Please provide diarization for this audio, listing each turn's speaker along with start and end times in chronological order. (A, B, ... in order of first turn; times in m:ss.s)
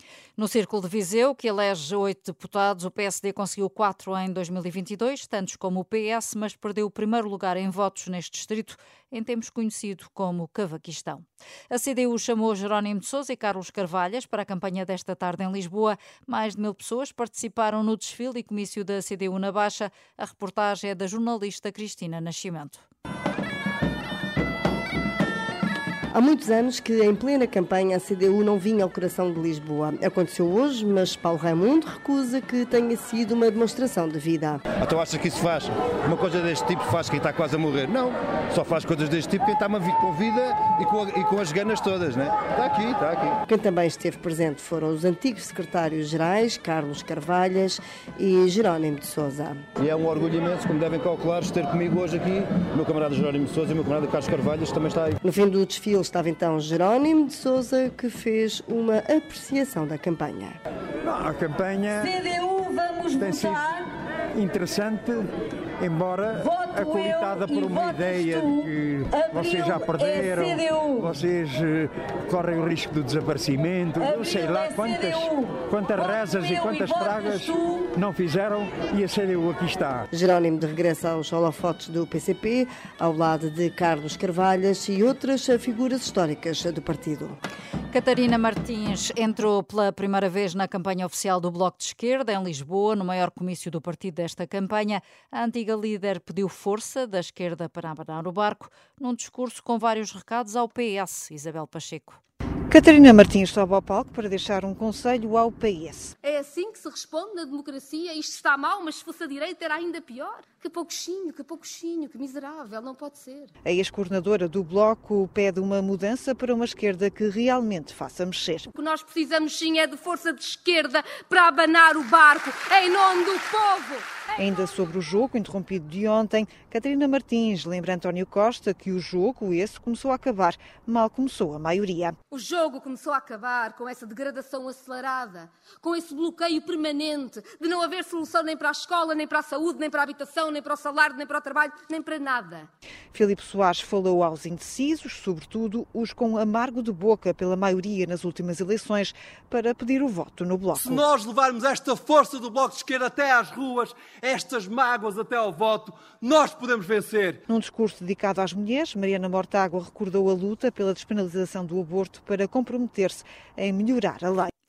0:00.4-0:22.8 A
0:26.1-0:34.6 B
0:34.8-0:43.4 C
0:43.4-0:49.6 B
0:49.8-0:55.2 C
0:55.2-1:00.6 B
1:01.0-1:02.1 D
1:02.0-1:03.9 E
1:03.2-1:03.6 D
1:04.4-1:05.3 D
1:05.8-1:20.1 D
1:06.4-1:11.1 E
1:14.0-1:17.9 E
1:20.1-1:27.4 B
1:27.9-1:42.2 A
1:42.7-1:46.1 F
1:46.2-1:53.5 G
1:53.6-1:58.7 F
1:58.7-2:04.1 G
2:04.4-2:12.2 F
2:12.3-2:22.7 G
2:23.1-2:31.1 F
2:30.7-2:37.4 H
2:37.5-2:44.5 F